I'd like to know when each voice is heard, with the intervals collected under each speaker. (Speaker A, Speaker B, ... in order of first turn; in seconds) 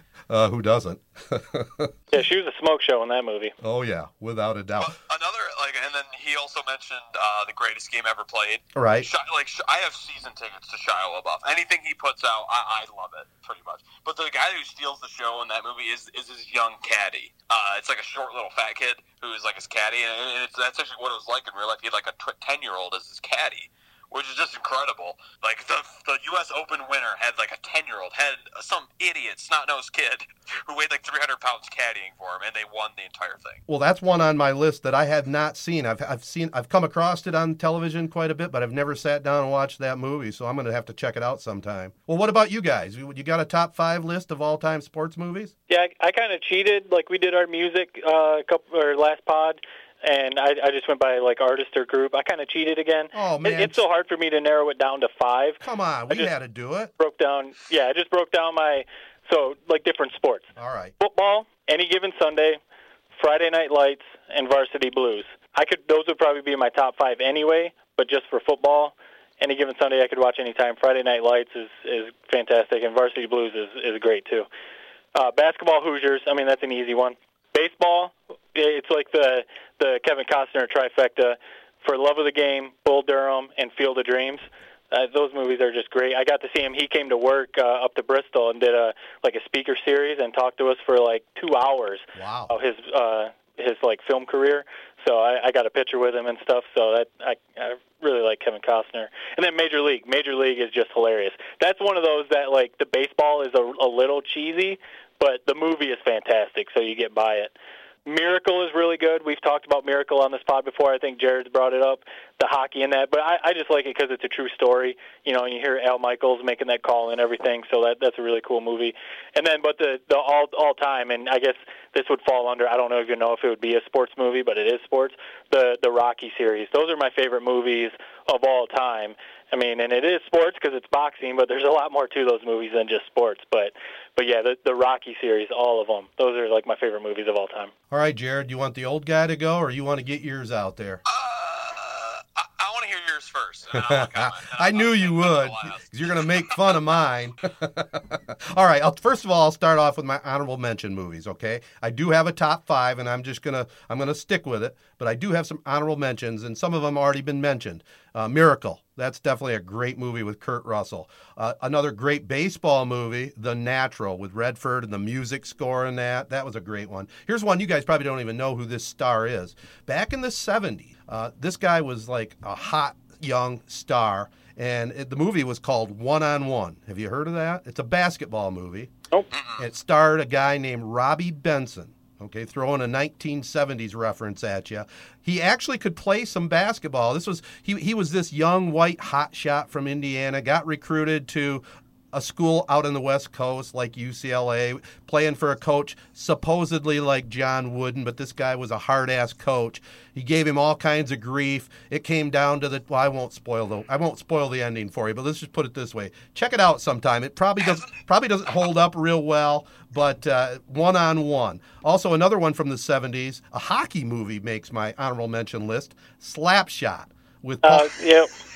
Speaker A: 0.3-1.9, 3.6-4.9, 8.8-9.1, 33.7-45.5, 53.1-53.8, 55.6-56.9, 60.5-60.9, 92.2-92.5, 137.9-141.0, 143.7-178.9, 179.6-217.9
Speaker B: 2.1-3.5, 45.7-56.3, 57.0-62.6, 63.1-74.5, 75.1-107.5, 108.0-137.7, 217.6-218.3
Speaker C: 4.8-33.6, 141.1-146.9, 179.3-179.6, 207.6-207.9